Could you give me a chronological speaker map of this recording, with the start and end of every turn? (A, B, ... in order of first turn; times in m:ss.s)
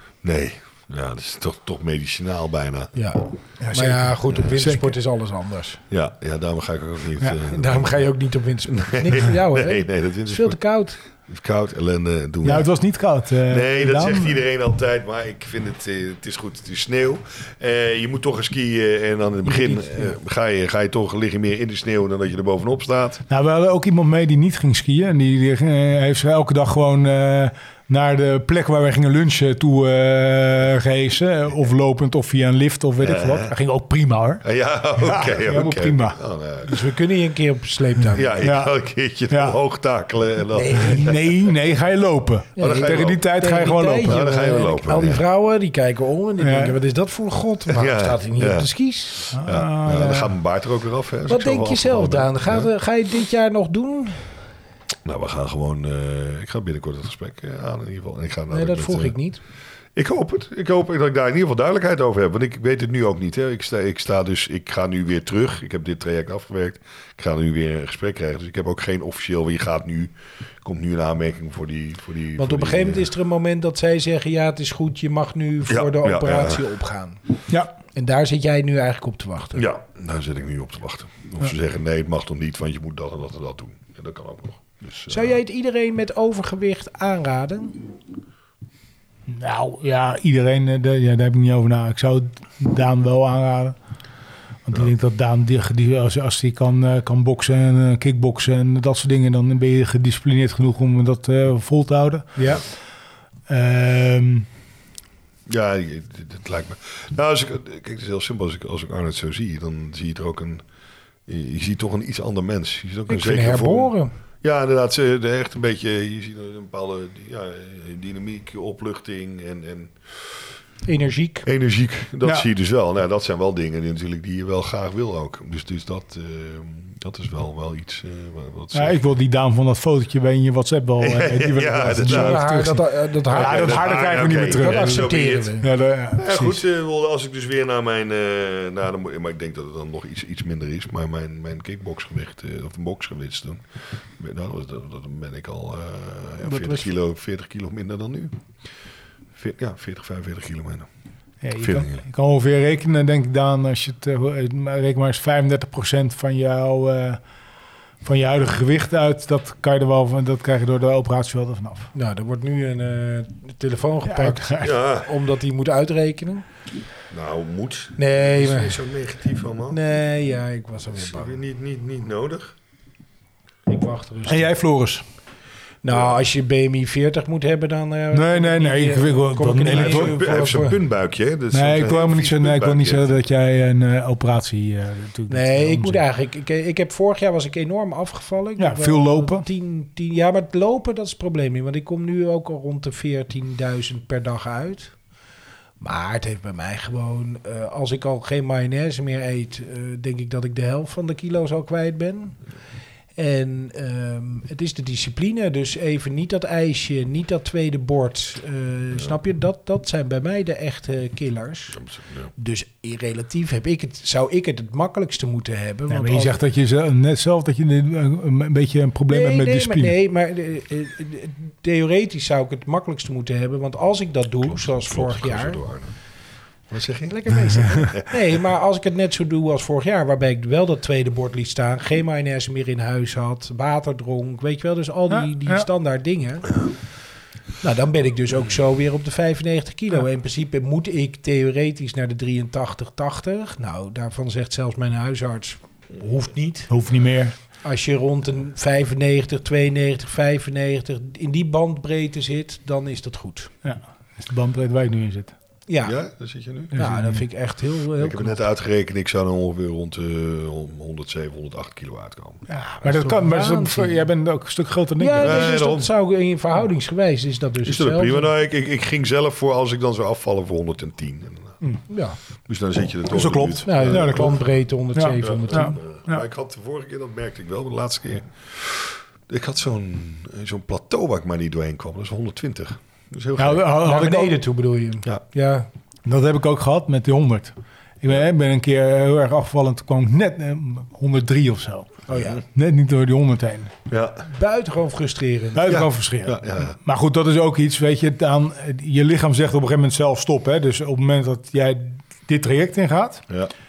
0:00.2-0:03.0 A
0:03.0-0:05.8 B
0:03.6-0:05.0 C
0:05.9-0:08.1 A
0:07.4-0:11.0 B
0:08.7-0:10.6 A
0:11.2-0:12.7 A
0:12.4-0:14.4 C
0:13.5-0:23.2 A
0:19.4-0:20.1 B
0:23.3-0:36.2 C
0:33.0-0:33.5 A
0:34.4-0:36.7 A
0:36.6-0:38.3 B
0:38.1-0:41.2 A
0:38.4-0:38.8 C
0:39.3-0:39.6 C
0:40.5-0:41.1 B
0:40.8-0:44.3 C
0:42.6-0:49.4 B
0:42.6-0:43.2 A
0:44.0-0:45.2 A
0:46.4-0:46.8 C
0:47.7-0:48.7 A
0:49.3-0:50.3 C
0:49.3-0:52.7 A
0:51.3-0:54.5 B
0:55.0-0:59.2 A
0:58.5-0:59.4 B
1:00.0-1:13.1 A
1:12.4-1:17.2 B
1:15.7-1:16.6 A
1:18.0-1:19.6 B
1:19.5-1:25.4 A
1:25.1-1:27.8 B
1:29.3-1:33.8 C
1:34.7-1:42.5 C
1:42.4-1:42.6 B
1:43.5-1:44.5 C
1:45.5-1:50.6 A
1:51.2-2:00.3 A
1:53.1-1:54.1 B
2:00.8-2:01.5 B
2:01.4-2:09.0 A
2:08.7-2:16.6 C
2:11.0-2:12.5 A
2:12.0-2:15.7 B
2:13.3-2:15.5 A
2:16.2-2:28.4 A
2:26.4-2:26.9 B
2:29.4-2:30.9 A
2:31.4-2:37.2 C
2:31.6-2:32.0 A
2:38.0-2:41.9 C
2:41.9-2:46.4 B
2:44.1-2:44.7 C
2:44.6-2:45.1 A
2:47.1-2:49.8 A
2:48.0-2:48.8 B
2:49.7-2:51.4 B
2:50.9-2:52.5 A
2:53.7-2:54.5 B
2:54.3-2:55.0 C
2:55.8-3:00.8 B
2:55.9-2:56.2 A
2:58.1-3:00.2 C
2:59.7-3:03.2 A
3:01.5-3:06.0 C
3:05.3-3:15.0 B
3:08.6-3:09.5 C
3:15.8-3:22.4 B
3:23.2-3:36.4 B
3:31.8-3:32.3 A
3:35.9-3:39.9 C
3:39.1-3:45.6 B
3:44.4-3:45.9 A
3:46.7-3:48.1 A
3:47.1-3:56.7 B
3:55.1-3:55.7 C
3:57.6-4:06.7 B
4:06.7-4:07.3 C
4:07.6-4:13.5 B
4:13.6-4:15.3 C
4:15.7-4:16.0 B
4:15.8-4:16.8 A
4:16.7-4:17.2 C
4:16.8-4:18.4 B
4:18.0-4:22.4 A
4:22.5-4:25.5 C
4:22.8-4:24.1 B
4:25.0-4:28.3 B
4:25.2-4:25.9 A
4:27.6-4:31.5 A
4:31.9-4:32.2 B
4:32.5-4:34.4 A
4:33.1-4:34.4 C
4:33.6-4:35.7 B
4:34.9-4:36.2 C
4:35.2-4:43.6 A
4:43.4-4:44.4 C
4:43.8-4:45.7 B
4:46.0-4:53.7 C
4:52.1-4:52.4 B
4:53.9-4:54.2 A
4:54.3-4:55.8 B
4:55.5-5:03.2 C
4:55.7-4:56.8 A